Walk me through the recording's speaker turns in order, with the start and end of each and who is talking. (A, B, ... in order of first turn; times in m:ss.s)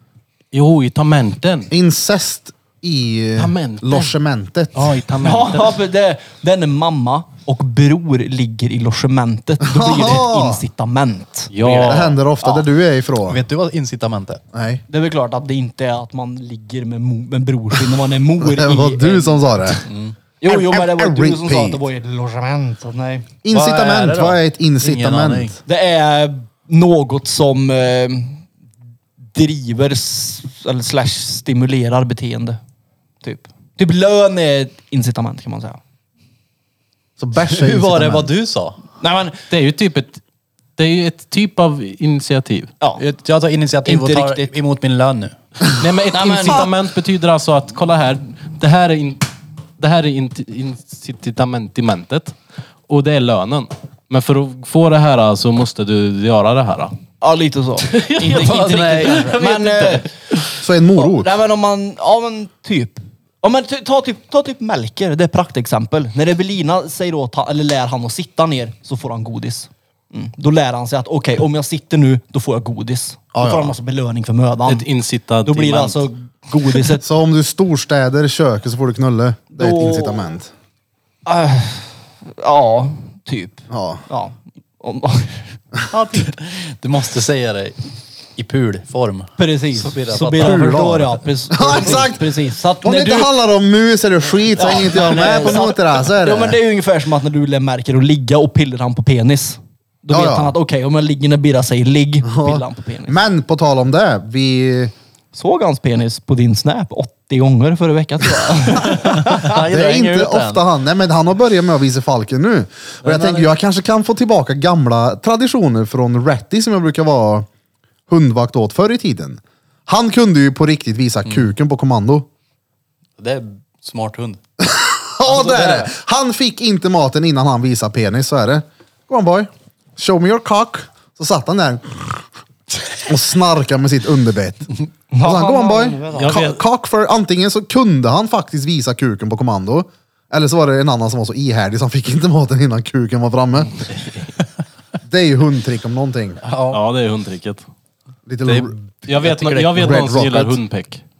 0:00.5-0:01.7 A
0:01.7-0:05.0 B
0:03.4-0:04.2 A
0:04.7-0:05.8 A
0:05.2-0:11.9 C
0:09.6-0:10.6 B
0:11.5-0:12.2 A
0:11.6-0:13.4 B
0:13.2-0:14.4 D
0:14.5-0:14.8 B
0:14.9-0:19.5 C
0:18.4-0:19.8 B
0:19.8-0:20.2 D
0:20.4-0:23.3 C
0:20.4-0:21.8 B
0:23.4-0:25.6 B
0:23.5-0:25.6 D
0:25.6-0:28.4 C
0:29.3-0:32.6 C
0:33.2-0:35.8 C
0:37.2-0:38.3 B
0:37.4-0:38.8 D
0:39.0-0:39.4 C
0:39.5-0:40.2 A
0:40.8-0:42.7 A
0:43.0-0:45.4 D
0:43.8-0:44.5 C
0:45.7-0:52.4 A
0:46.1-0:46.6 D
0:46.2-0:46.6 C
0:52.9-0:57.0 A
0:57.2-1:00.1 C
0:57.9-1:00.5 A
0:58.3-0:59.4 D
1:00.6-1:01.3 B
1:00.9-1:14.9 C
1:13.3-1:13.8 B
1:14.6-1:16.1 A
1:15.4-1:17.0 C
1:17.0-1:20.5 B
1:19.5-1:20.3 C
1:21.2-1:25.6 C
1:23.7-1:24.0 B
1:25.9-1:27.8 D
1:28.4-1:30.8 D
1:29.4-1:33.3 C
1:30.4-1:36.6 B
1:31.7-1:32.0 D
1:34.6-1:43.2 C
1:35.0-1:35.3 D
1:40.1-1:40.5 B
1:42.2-1:44.9 B
1:45.3-1:49.6 C
1:49.2-1:50.6 D
1:49.5-1:57.5 B
1:53.0-1:53.5 D
1:58.1-2:02.3 B
2:01.2-2:01.5 D
2:03.2-2:04.4 D
2:04.6-2:12.2 B
2:05.2-2:05.9 D
2:13.0-2:23.8 B
2:15.1-2:16.4 C
2:16.1-2:16.6 A
2:25.0-2:26.4 B
2:26.4-2:26.8 D
2:26.7-2:27.6 A
2:28.3-2:28.7 B
2:28.4-2:30.0 D
2:29.0-2:31.0 A
2:29.8-2:30.6 B